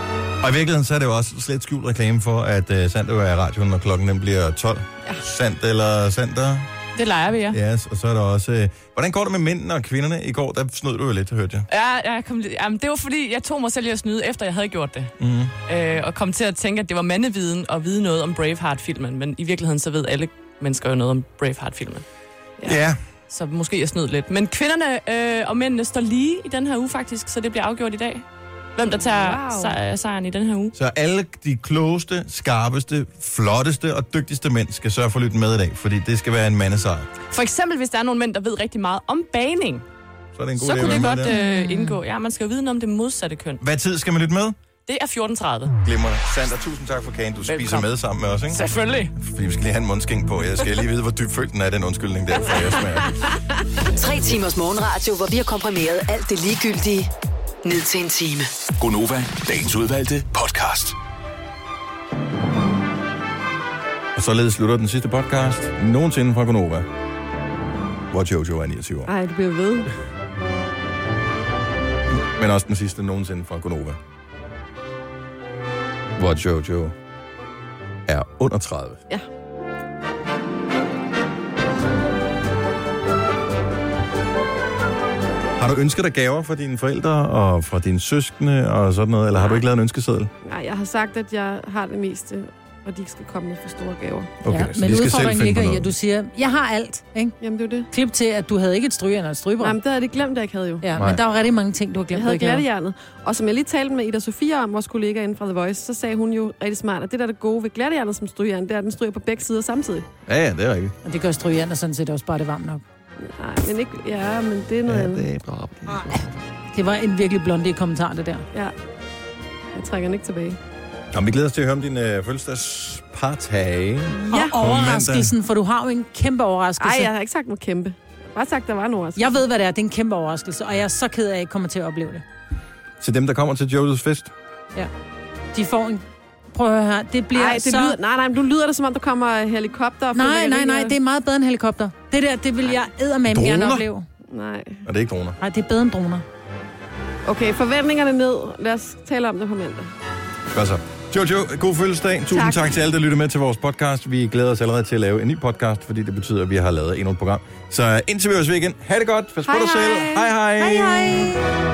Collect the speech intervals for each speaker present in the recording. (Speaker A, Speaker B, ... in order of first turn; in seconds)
Speaker A: 0.4-6.7, 7.5-11.7, 15.2-15.5, 22.6-23.0, 30.7-37.1, 40.3-41.3, 43.6-44.5, 45.8-48.6, 49.1-53.2, 64.1-66.9, 68.1-69.1, 72.3-74.0, 76.2-76.9, 78.1-79.0, 85.6-90.3, 94.4-95.9, 100.9-101.2, 110.2-110.9, 114.8-116.2, 121.1-125.3, 133.0-134.3, 143.3-143.9, 144.8-145.4, 150.5-161.3
Speaker B: 7.0-7.6, 11.7-15.1, 15.7-22.0, 23.3-28.2, 28.8-30.7, 37.3-39.8, 40.6-43.6, 44.9-45.8, 47.5-47.9, 48.5-49.1
Speaker C: 28.8-29.8, 52.6-53.4, 69.0-69.9, 90.4-94.3, 97.4-97.9, 99.6-100.9, 102.1-110.1, 113.2-115.2, 119.7-120.6, 124.3-124.5, 126.8-129.4, 137.3-140.9, 144.3-144.8, 147.2-149.9, 152.3-152.8, 159.4-161.4
Speaker D: 40.9-42.0, 94.5-97.4, 97.9-99.8, 100.8-102.7, 111.0-112.8, 115.9-118.5, 124.3-127.1, 129.2-132.2, 135.5-137.9, 140.1-144.1, 145.4-146.2
Speaker E: 53.9-57.1, 57.6-58.5
Speaker F: 58.8-61.0